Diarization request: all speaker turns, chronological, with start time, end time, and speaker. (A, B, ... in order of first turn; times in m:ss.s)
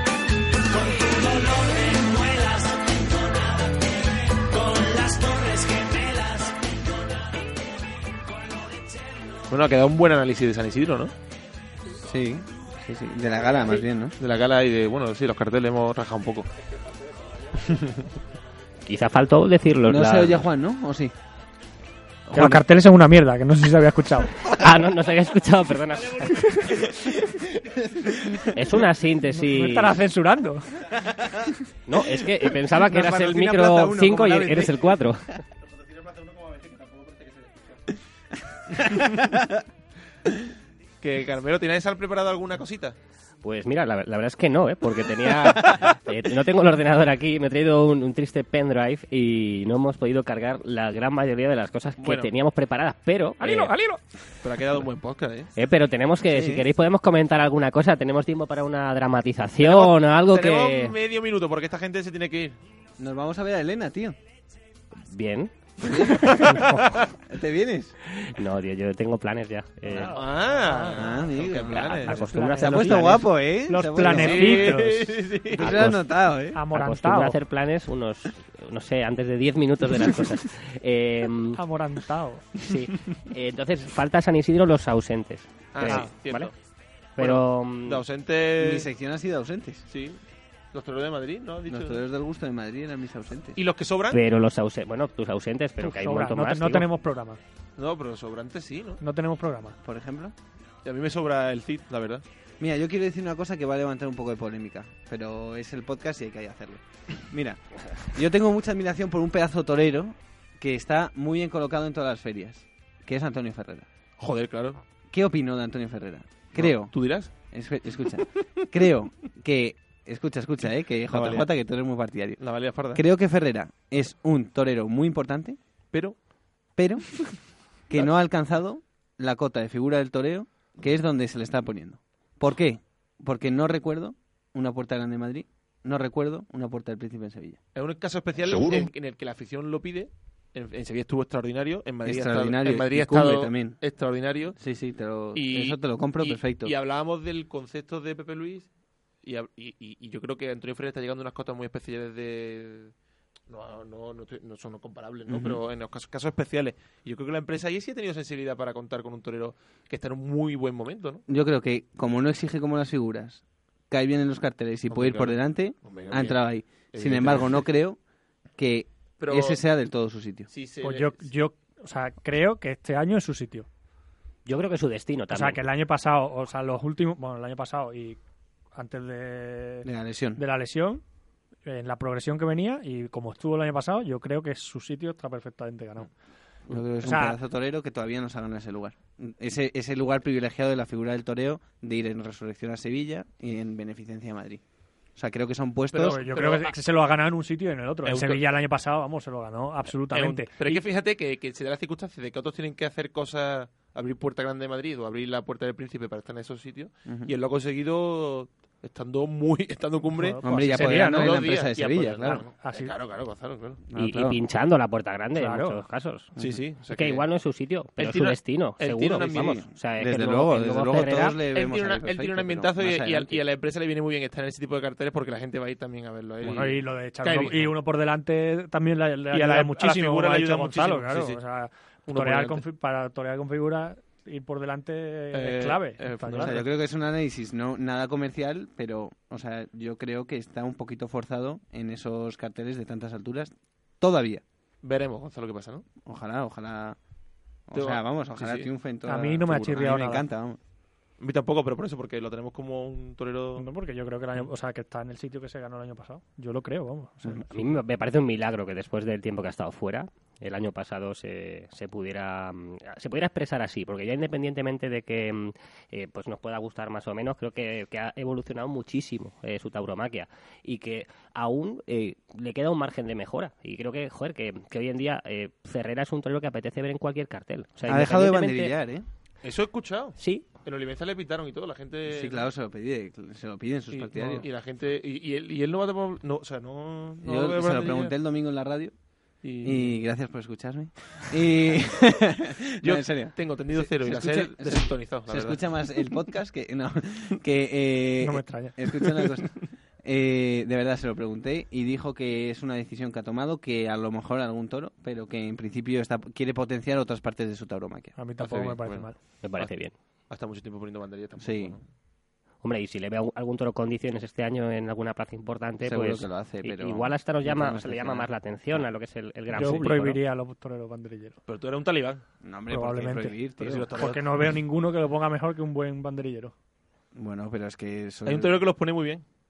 0:00.7-0:09.4 A
0:09.5-0:11.1 B
0:12.0-0:14.1 C
0:14.2-0:16.5 B
0:17.6-0:18.1 B
0:18.9-0:20.4 D
0:19.9-0:21.1 C
0:22.3-0:22.6 C
0:22.3-0:24.3 E
0:24.4-0:26.8 D
0:26.4-0:26.8 E
0:28.5-0:30.0 D
0:29.4-0:30.7 E
0:31.1-0:31.4 C
0:31.9-0:35.4 D
0:32.0-0:35.1 C
0:35.6-0:38.0 B
0:38.7-0:39.4 B
0:41.0-0:43.0 B
0:43.4-0:53.7 D
0:45.5-0:45.9 C
0:52.0-0:52.3 B
0:53.4-0:54.0 E
0:54.4-0:55.5 B
0:55.6-1:01.0 D
0:56.3-0:56.6 C
0:59.6-1:02.6 B
1:03.0-1:04.2 C
1:05.1-1:06.6 D
1:05.8-1:06.4 C
1:06.3-1:06.8 B
1:07.3-1:08.0 C
1:08.2-1:10.2 D
1:09.8-1:10.2 C
1:09.9-1:11.2 E
1:10.1-1:12.2 B
1:10.9-1:16.6 C
1:11.6-1:13.3 D
1:12.1-1:15.1 E
1:14.0-1:15.9 B
1:15.6-1:16.0 D
1:16.5-1:17.4 E
1:16.7-1:21.6 D
1:21.5-1:22.6 E
1:22.6-1:26.5 D
1:25.7-1:26.6 B
1:25.8-1:26.1 E
1:27.2-1:28.0 D
1:27.2-1:28.9 B
1:28.6-1:29.8 C
1:29.9-1:30.2 B
1:30.7-1:32.0 B
1:31.7-1:33.6 C
1:33.6-1:34.2 B
1:34.1-1:36.9 D
1:35.8-1:37.4 E
1:37.8-1:39.0 B
1:39.0-1:39.8 E
1:39.8-1:40.3 C
1:40.8-1:42.2 B
1:42.6-1:53.9 C
1:54.2-1:54.8 B
1:55.1-2:05.6 C
1:56.6-1:57.3 B
2:01.1-2:01.5 B
2:02.4-2:03.0 B
2:05.9-2:06.2 B
2:06.7-2:17.6 C
2:17.7-2:24.6 B
2:22.0-2:23.8 C
2:24.6-2:26.7 C
2:25.3-2:28.7 B
2:29.2-2:32.9 B
2:33.5-2:41.2 B
2:35.3-2:35.6 C
2:41.3-2:48.0 C
2:44.9-2:47.7 B
2:48.6-2:50.5 C
2:49.2-2:49.6 B
2:50.5-2:51.3 B
2:50.8-2:53.7 E
2:54.4-2:55.6 D
2:55.3-2:58.2 E
2:58.7-3:01.0 E
2:59.8-3:00.4 C
3:01.6-3:06.1 E
3:06.7-3:14.6 C
3:07.0-3:07.4 E
3:15.1-3:16.4 C
3:15.9-3:20.8 E
3:15.9-3:16.8 B
3:18.0-3:18.4 B
3:20.1-3:33.8 B
3:27.1-3:27.3 C
3:30.1-3:31.4 E
3:30.4-3:32.4 C
3:32.6-3:32.9 E
3:33.9-3:34.4 C
3:34.0-3:36.3 D
3:35.3-3:35.8 E
3:36.4-3:36.6 C
3:36.4-3:37.2 B
3:36.9-3:41.4 D
3:38.0-3:39.6 B
3:39.1-3:43.4 C
3:41.5-3:47.8 B
3:46.4-3:56.6 E
3:49.3-3:51.4 B
3:52.1-3:52.6 B
3:55.3-3:56.6 B
3:56.4-4:04.4 C
4:04.8-4:05.9 B
4:06.0-4:07.0 C
4:07.7-4:10.6 C
4:07.7-4:08.7 B
4:09.0-4:10.3 E
4:11.2-4:13.7 B
4:13.6-4:17.7 E
4:17.5-4:38.7 D
4:37.9-4:39.1 C
4:39.4-4:42.5 B
4:40.2-4:40.4 D
4:42.1-4:44.5 C
4:43.9-4:48.2 B
4:47.2-5:08.2 C
4:49.4-4:50.0 B
4:52.8-4:56.2 B
4:58.2-4:58.8 E
5:08.1-5:09.4 E
5:08.4-5:09.7 B
5:09.4-5:09.9 D
5:10.3-5:11.8 B
5:11.4-5:11.8 C
5:12.6-5:20.2 D
5:15.8-5:18.9 C
5:19.5-5:21.4 E
5:21.4-5:22.2 B
5:22.4-5:24.0 C
5:22.7-5:26.5 E
5:23.6-5:24.4 B
5:27.1-5:28.6 C
5:28.3-5:29.2 B